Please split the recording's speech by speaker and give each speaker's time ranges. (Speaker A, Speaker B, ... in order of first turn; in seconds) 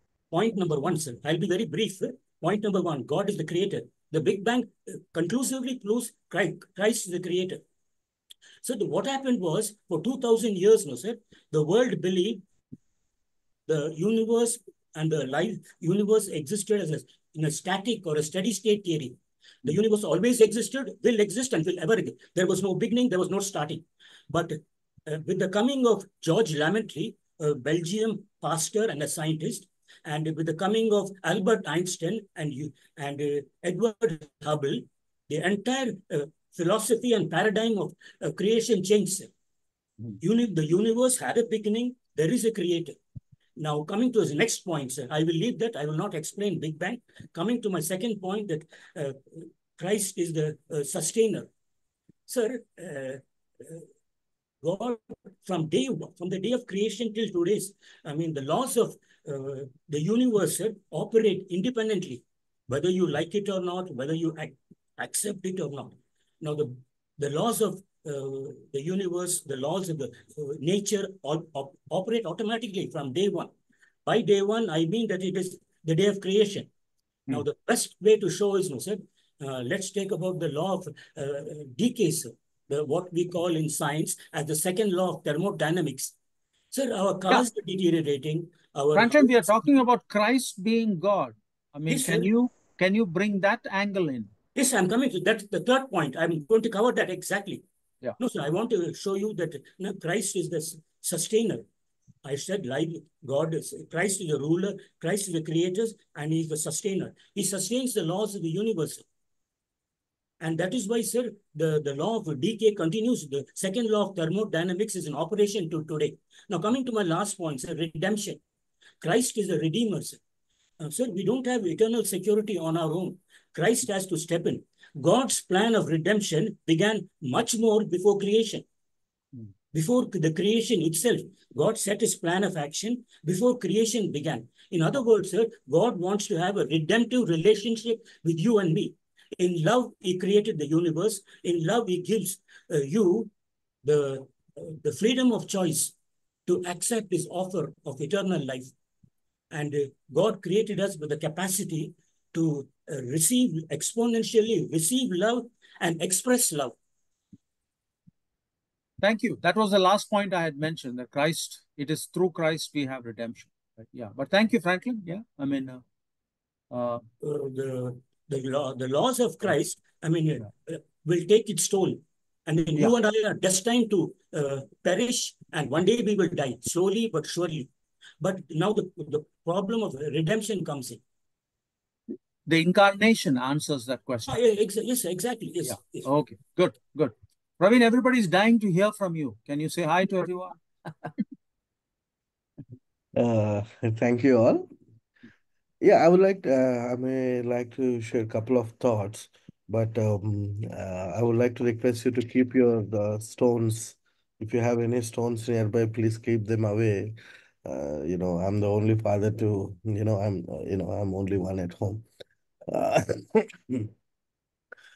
Speaker A: 0.3-7.6, 8.6-12.4, 13.7-39.3, 40.2-43.0, 43.6-51.5, 52.3-53.9, 54.6-73.5, 74.0-76.7, 77.3-86.2, 86.7-89.6, 91.9-92.3, 94.6-97.7, 98.2-101.7, 102.2-109.1, 110.4-118.4, 119.0-120.2, 120.8-128.7, 129.7-143.3, 143.8-145.9, 146.5-148.7, 149.5-156.8, 167.2-177.7, 178.2-181.0, 184.3-186.1
Speaker B: 89.0-94.3, 159.0-165.8, 166.7-167.0, 182.5-184.3, 185.6-191.1
Speaker C: 193.2-194.7, 195.8-212.1, 212.7-213.9